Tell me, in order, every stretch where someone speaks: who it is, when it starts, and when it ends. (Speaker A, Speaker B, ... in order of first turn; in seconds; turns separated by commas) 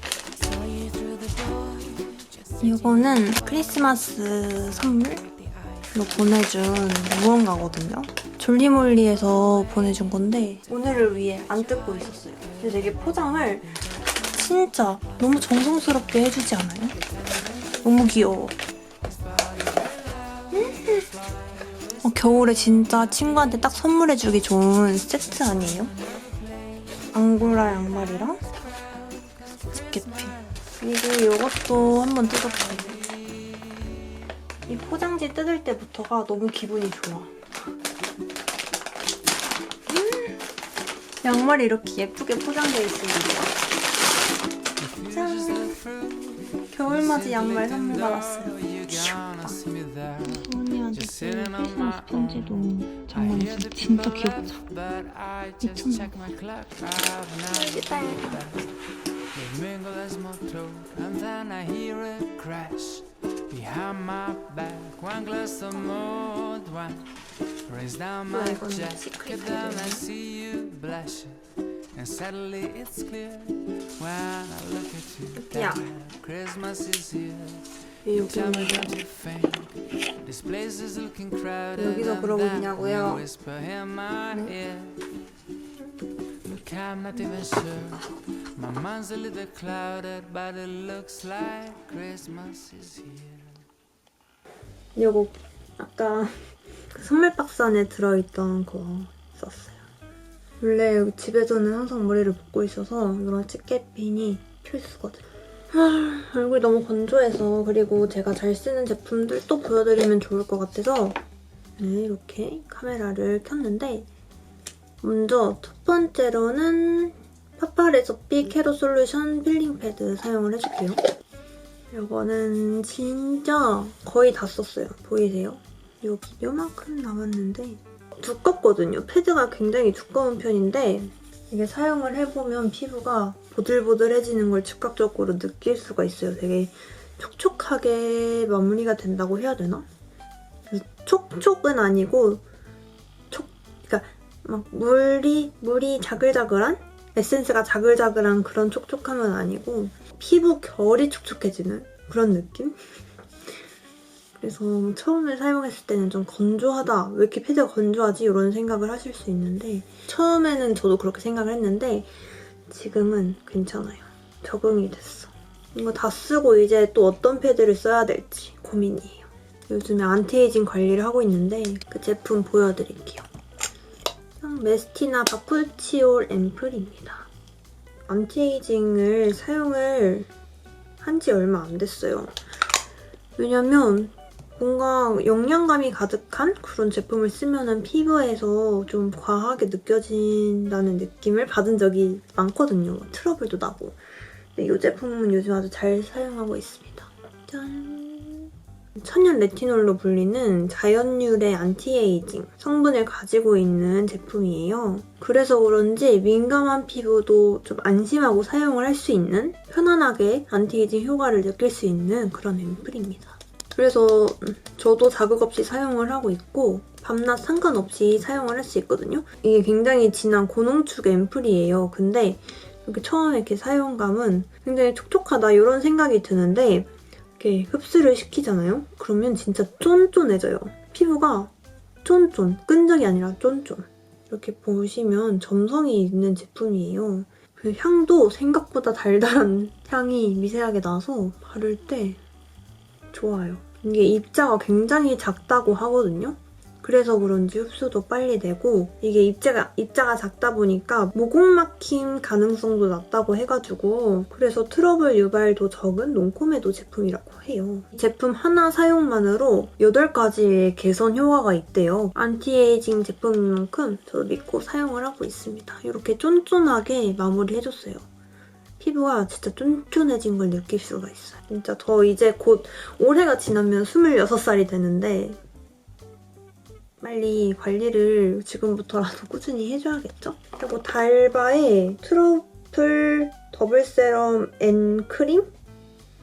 Speaker A: 0.3-6.4, Speaker B: 2.6-5.2, Speaker B: 5.9-13.8, Speaker A: 9.0-16.2, Speaker B: 14.3-17.0, Speaker B: 17.8-18.6, Speaker C: 19.0-23.6, Speaker B: 20.5-21.1, Speaker B: 22.0-25.9, Speaker C: 25.9-26.7, Speaker B: 27.1-28.4, Speaker C: 28.4-30.4, Speaker B: 29.7-33.0, Speaker C: 32.3-33.7, Speaker B: 34.7-37.5, Speaker B: 39.9-40.4, Speaker B: 41.2-43.5, Speaker C: 44.8-58.7, Speaker B: 45.1-45.8, Speaker B: 46.7-49.6, Speaker B: 50.2-54.6, Speaker B: 55.6-56.1, Speaker B: 57.5-58.4, Speaker C: 59.3-67.1, Speaker C: 67.7-84.9, Speaker B: 68.3-70.1, Speaker B: 75.3-75.9, Speaker B: 78.0-79.0, Speaker B: 81.8-83.2, Speaker C: 86.4-93.6, Speaker B: 94.9-96.3, Speaker B: 96.9-99.8, Speaker B: 100.6-111.2, Speaker B: 111.8-114.1, Speaker B: 115.0-121.0, Speaker B: 121.9-139.8, Speaker B: 140.7-142.4, Speaker B: 143.3-152.8, Speaker B: 154.4-162.1, Speaker B: 162.7-173.2, Speaker B: 174.4-177.3, Speaker B: 178.1-180.3, Speaker B: 181.0-182.3, Speaker B: 183.4-194.0, Speaker B: 194.5-231.5, Speaker B: 232.0-242.2, Speaker B: 243.1-268.1, Speaker B: 268.8-275.4, Speaker B: 277.0-285.5